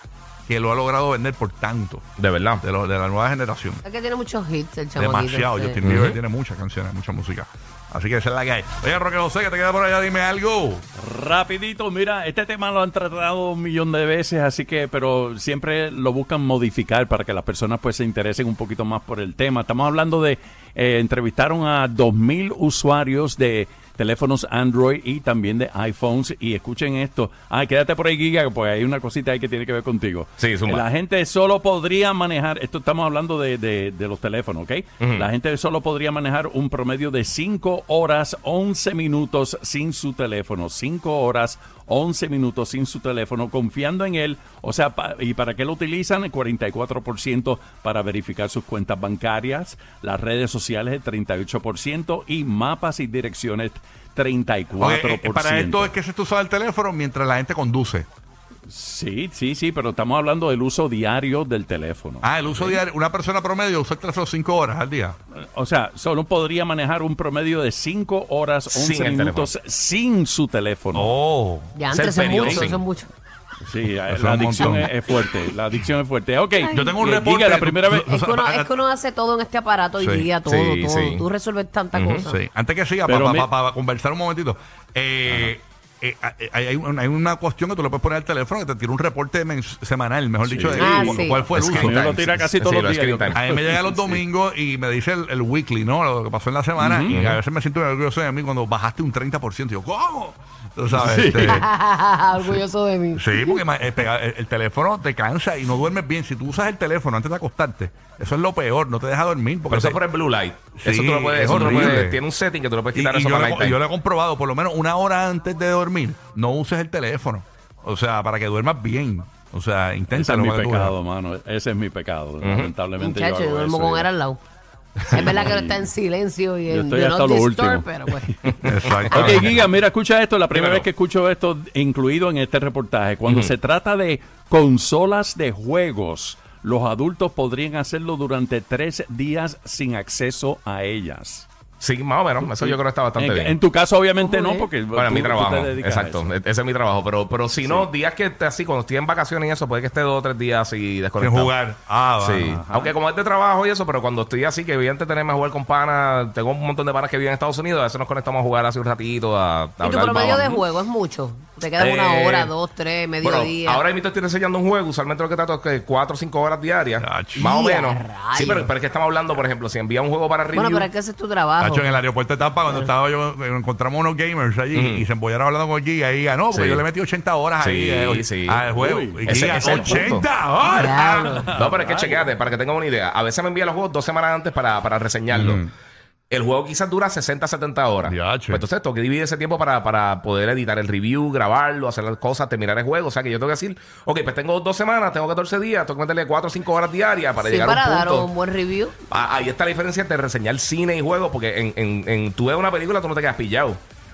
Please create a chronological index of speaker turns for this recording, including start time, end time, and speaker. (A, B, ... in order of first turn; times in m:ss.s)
0:00.5-0:02.0 A
0:02.2-0:02.6 B
0:02.6-0:03.8 A
0:03.8-0:05.8 C
0:05.0-0:10.8 A
0:05.8-0:06.2 B
0:11.0-0:55.9 D
0:30.4-0:30.8 B
0:35.0-0:35.3 B
0:54.8-0:58.1 A
0:58.7-1:02.8 D
1:02.2-1:05.2 A
1:05.4-1:11.2 D
1:08.7-1:09.5 B
1:10.9-1:11.7 A
1:11.8-1:13.1 C
1:11.9-1:12.8 B
1:12.4-1:12.7 D
1:13.6-1:18.1 D
1:14.1-1:14.9 A
1:16.6-1:17.0 C
1:16.7-1:18.7 A
1:18.0-1:22.4 C
1:20.0-1:20.3 A
1:20.5-1:21.2 B
1:22.0-1:22.3 B
1:22.3-1:32.5 A
1:23.1-1:23.5 D
1:30.4-1:34.1 D
1:30.8-1:31.5 C
1:31.5-1:33.4 B
1:33.3-1:41.7 A
1:36.8-1:37.2 D
1:37.1-1:37.4 B
1:40.9-1:41.7 D
1:41.4-1:43.6 C
1:43.2-1:50.0 A
1:49.7-1:53.8 B
1:50.8-1:52.2 A
1:51.4-1:52.0 D
1:52.9-2:00.9 A
2:00.1-2:04.1 D
2:02.4-2:02.7 B
2:03.0-2:04.4 C
2:05.1-2:05.9 D
2:05.1-2:08.4 C
2:06.7-2:21.5 D
2:08.6-2:09.6 A
2:08.7-2:09.4 B
2:10.5-2:10.9 B
2:13.3-2:13.5 B
2:21.8-2:23.5 B
2:22.4-2:26.3 D
2:24.2-2:24.7 C
2:24.9-2:31.5 B
2:27.6-2:27.9 D
2:31.2-2:32.6 A
2:32.2-2:40.6 B
2:32.4-2:32.9 D
2:39.8-2:43.8 C
2:41.8-2:42.5 B
2:43.2-2:50.9 B
2:47.0-2:47.5 A
2:47.4-2:48.7 C
2:50.5-2:52.0 C
2:51.6-3:01.4 A
2:54.7-2:55.1 B
2:56.5-2:56.8 B
2:57.6-2:58.6 B
2:58.7-2:59.9 D
2:59.3-3:00.2 B
3:00.7-3:01.5 C
3:01.0-3:02.4 D
3:01.5-3:05.6 B
3:05.3-3:05.7 A
3:06.3-3:18.3 B
3:08.0-3:08.6 A
3:17.4-3:19.0 C
3:19.1-3:23.8 B